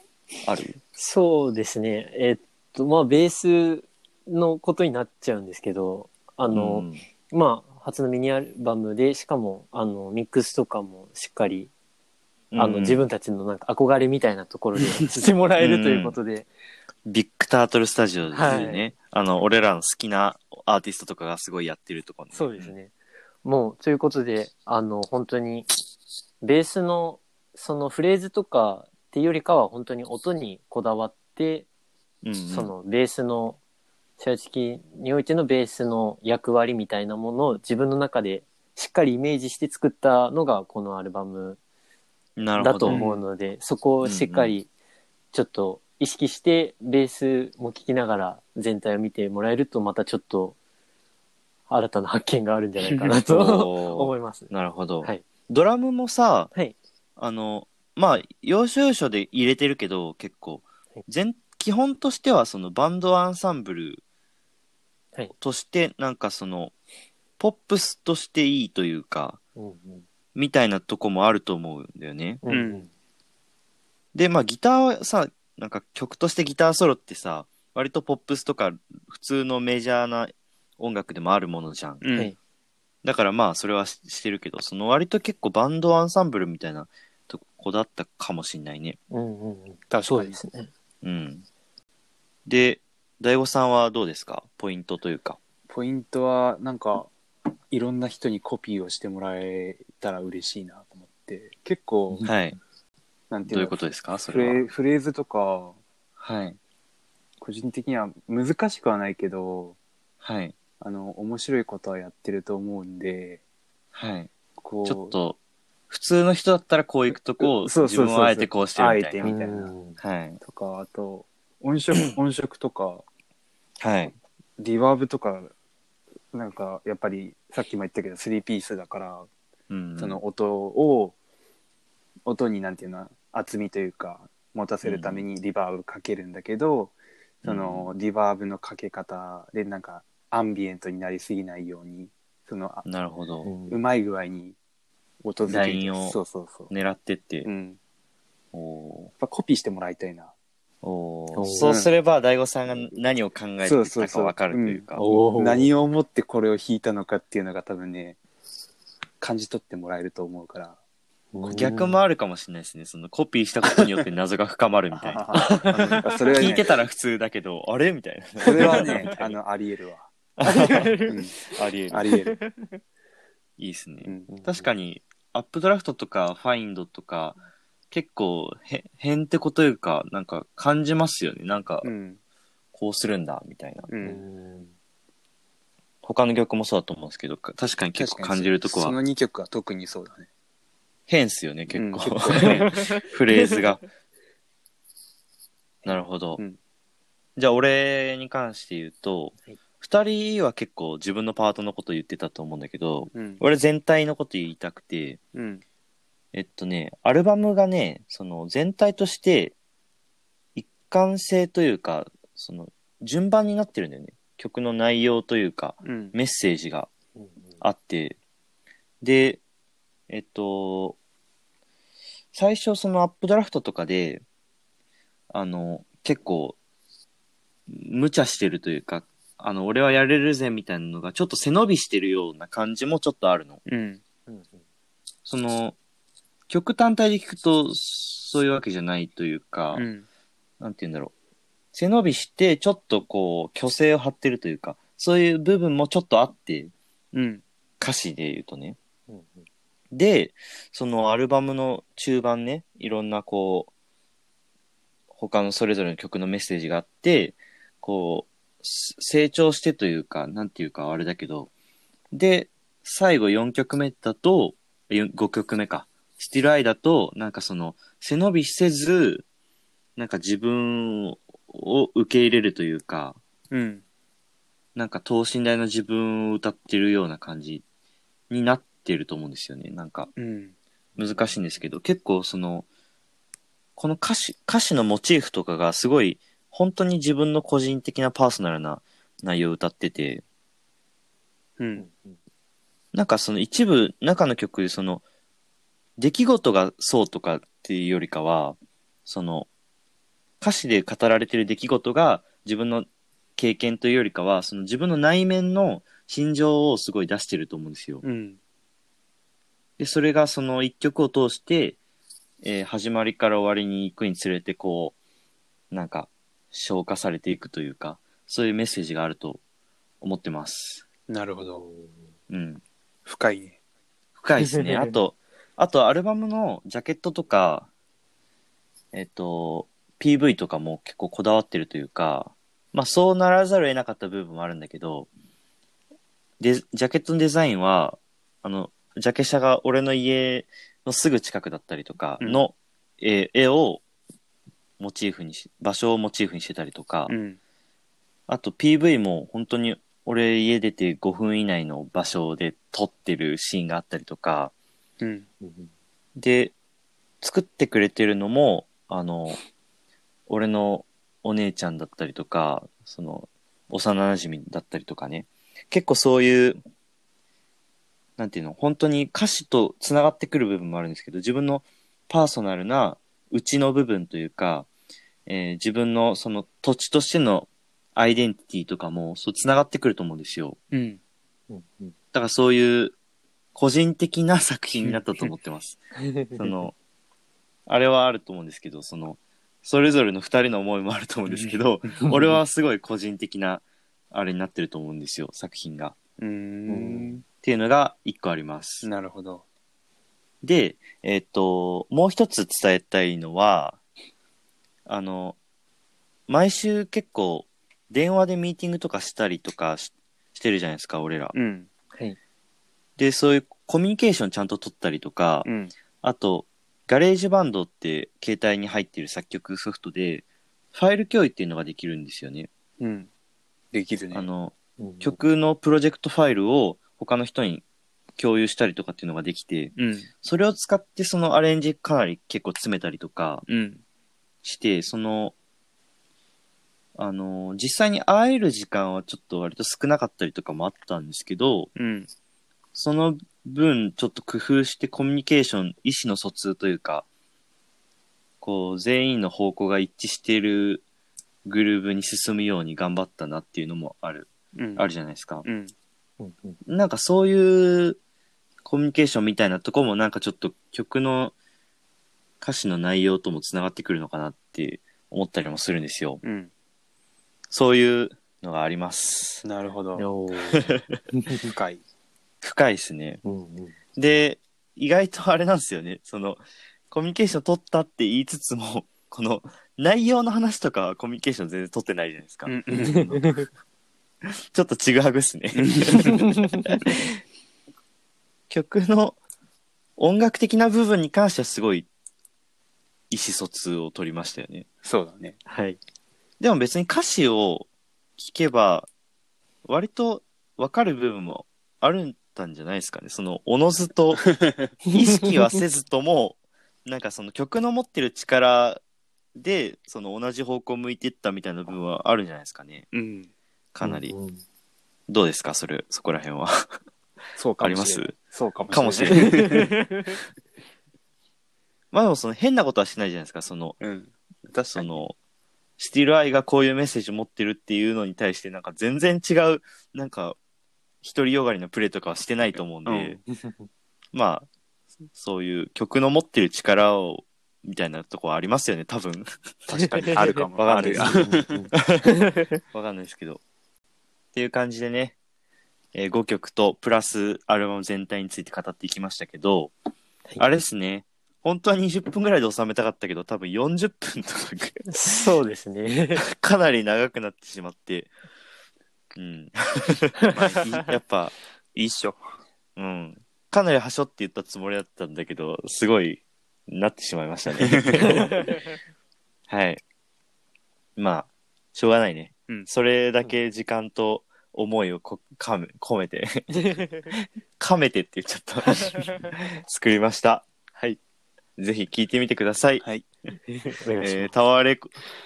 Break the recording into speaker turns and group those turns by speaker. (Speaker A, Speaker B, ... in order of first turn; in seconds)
Speaker A: 0.4-0.8, 6.5-7.0, 12.5-13.0, 15.6-16.2, 17.1-22.7, 32.2-32.7, 42.4-43.0, 44.0-44.6, 53.2-56.5, 57.2-64.0, 65.4-66.7, 67.4-69.4, 70.3-72.4, 74.1-82.1, 83.0-89.0, 91.0-91.5, 92.5-95.4, 102.2-102.6, 103.5-104.7, 106.2-106.6, 110.2-110.5, 113.9-114.3, 114.8-115.4, 115.9-119.3, 120.0-120.4, 123.8-124.1, 129.7-130.2, 134.8-135.3, 137.4-137.9, 142.8-143.5, 145.4-146.2, 146.7-147.5, 148.5-149.1, 150.8-155.1, 161.5-169.4, 170.4-170.9, 171.5-172.1, 173.6-177.4, 177.9-181.9, 182.7-183.9, 186.0-189.0, 191.1-193.8, 195.9-196.4, 197.4-205.2, 206.3-209.6, 210.6-216.9, 217.6-218.2, 219.0-219.4, 220.1-221.0, 222.3-224.2, 225.3-226.6, 227.7-233.6, 235.3-235.8, 236.5-239.9, 240.6-241.1, 241.7-246.7, 247.8-248.8, 249.9-253.7, 255.1-261.5, 262.1-269.2, 270.0-273.2, 274.8-277.6, 278.3-280.1, 281.0-282.7, 283.8-290.2, 292.9-295.0, 296.0-299.5, 300.4-308.0, 309.8-311.8, 312.4-315.0, 315.7-319.4, 320.0-320.8, 322.3-322.6, 324.2-327.7, 328.9-335.1, 336.4-343.8, 344.8-347.1, 348.3-354.5, 356.2-356.5, 357.2-359.4, 360.3-366.6, 368.2-374.7, 375.3-380.6, 382.1-382.9, 383.6-385.8, 386.4-386.8, 387.7-395.9, 397.4-398.9, 400.4-403.8, 404.9-405.4, 406.3-411.3, 413.0-415.5, 416.0-422.5, 424.1-427.6, 428.2-433.4, 434.4-435.4, 437.0-441.7, 442.7-447.1, 448.4-450.8, 451.4-455.4, 456.7-458.0, 458.6-461.3, 462.4-466.2, 467.5-469.4, 472.4-473.2, 474.0-483.1, 484.5-487.1, 488.5-489.2, 490.0-491.9, 493.1-494.7, 496.4-498.9, 499.7-504.3, 504.9-508.8, 509.4-512.9, 513.7-514.1, 515.1-516.6, 517.6-518.1, 518.7-519.5, 521.9-523.8, 524.7-525.2, 525.8-530.4, 531.0-533.2, 534.1-534.5, 535.1-542.0, 542.7-543.4, 544.3-545.1, 545.9-549.7, 550.4-554.9, 556.2-558.1, 559.2-561.4, 562.8-568.5, 569.5-569.8, 571.0-576.8, 577.6-580.5, 581.6-582.9, 584.0-584.9
Speaker B: 1.0-11.7, 12.6-16.5, 18.3-18.9, 22.3-25.7, 26.4-31.7, 32.5-33.6, 34.2-41.6, 42.6-44.7, 45.3-50.6, 51.7-54.5, 69.6-70.0, 72.4-72.9, 89.1-90.7, 119.2-120.0, 143.4-143.8, 151.3-151.8, 154.9-155.7, 161.3-162.0, 165.3-165.8, 168.7-169.1, 170.4-171.5, 172.1-172.8, 174.3-174.7, 184.0-184.7, 192.3-193.7, 217.2-217.6, 234.3-234.6, 249.1-249.4, 281.1-281.4, 291.8-292.2, 321.6-321.9, 324.6-324.9, 355.4-355.7, 381.5-381.9, 396.7-397.2, 424.8-425.2, 456.2-456.6, 470.0-471.5, 473.2-473.8, 483.1-483.5, 486.1-486.5, 495.5-495.8, 513.8-514.4, 519.1-520.2, 539.8-540.5, 541.0-542.5, 554.9-556.2, 568.2-568.5, 578.8-579.1, 583.5-584.3
Speaker C: 42.9-43.2, 72.5-72.9, 82.0-82.3, 89.9-90.4, 95.7-97.1, 97.7-102.3, 103.3-105.8, 107.4-109.8, 110.8-113.4, 114.6-115.2, 117.4-119.7, 120.4-123.0, 124.6-125.5, 126.3-129.3, 130.0-131.2, 132.3-136.9, 137.5-142.9, 143.7-144.6, 145.2-146.7, 147.4-147.8, 149.2-150.3, 151.6-151.9, 153.6-158.2, 159.2-160.8, 163.8-164.1, 164.9-166.8, 168.4-170.1, 171.0-171.3, 171.9-172.4, 174.0-174.3, 181.8-182.2, 183.9-184.2, 188.0-190.3, 191.7-192.7, 195.8-196.6, 203.1-203.4, 205.3-205.6, 215.8-216.2, 233.7-234.0, 239.7-240.1, 247.1-247.4, 273.5-273.8, 280.2-280.6, 291.6-291.9, 308.0-308.4, 321.1-321.7, 323.1-323.6, 342.2-342.4, 347.1-347.4, 355.0-355.3, 380.7-381.0, 391.3-391.9, 396.2-397.2, 398.8-399.4, 411.3-411.7, 415.4-415.7, 422.8-423.1, 423.7-424.3, 429.8-430.1, 433.5-433.8, 441.8-442.1, 454.6-454.9, 455.4-455.7, 466.2-466.5, 469.4-470.1, 471.5-471.8, 482.5-483.1, 485.6-486.0, 494.8-495.4, 504.3-504.7, 512.9-513.3, 517.4-519.7, 523.8-525.0, 532.9-533.2, 540.0-541.6, 561.8-562.3, 567.6-567.9